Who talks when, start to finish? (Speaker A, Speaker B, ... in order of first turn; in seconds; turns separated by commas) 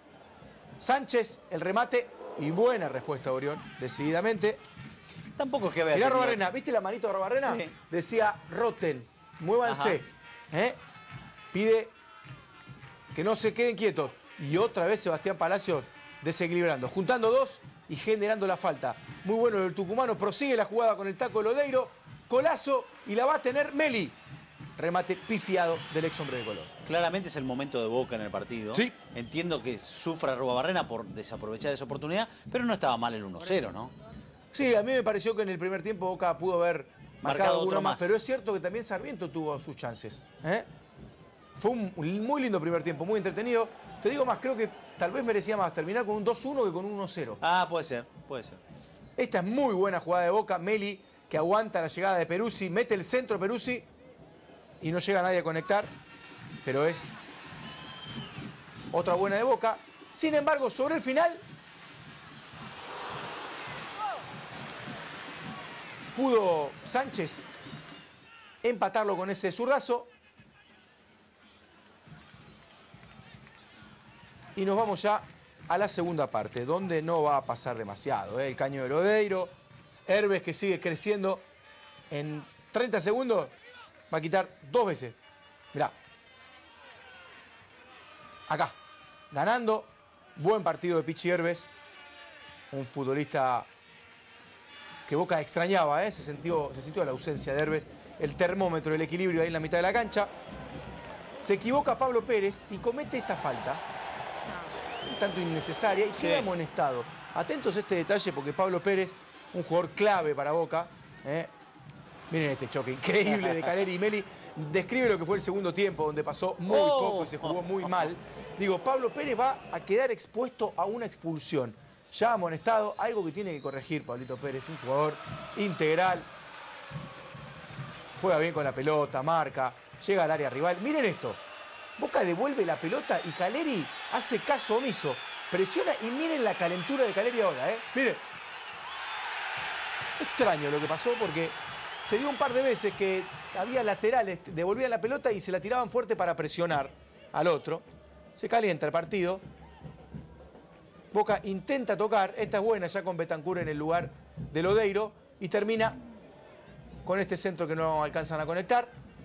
Speaker A: 0.8-4.6, Speaker B: 5.4-6.5, Speaker A: 5.9-10.8, Speaker B: 7.4-7.7, Speaker B: 9.6-10.0, Speaker A: 11.5-11.9, Speaker A: 13.1-24.2, Speaker A: 24.8-26.7, Speaker B: 26.8-33.9, Speaker A: 28.7-29.0, Speaker A: 34.5-40.7, Speaker B: 37.2-38.1, Speaker A: 41.6-47.4, Speaker B: 47.4-48.6, Speaker A: 49.2-53.9, Speaker A: 54.8-55.9, Speaker A: 56.6-57.2, Speaker A: 58.9-61.4, Speaker A: 66.2-67.5, Speaker A: 68.6-70.1, Speaker A: 74.6-79.5, Speaker A: 80.1-81.5, Speaker A: 82.1-83.5, Speaker A: 84.1-85.2, Speaker A: 88.5-88.8, Speaker A: 89.3-91.7, Speaker A: 92.7-93.7, Speaker A: 95.1-100.3, Speaker A: 101.4-103.8, Speaker A: 105.1-111.5, Speaker B: 106.1-106.5, Speaker A: 112.3-126.3, Speaker B: 113.3-113.7, Speaker B: 116.7-118.1, Speaker A: 128.2-131.4, Speaker A: 132.0-138.2, Speaker A: 140.2-149.4, Speaker A: 151.1-156.0, Speaker A: 157.1-159.0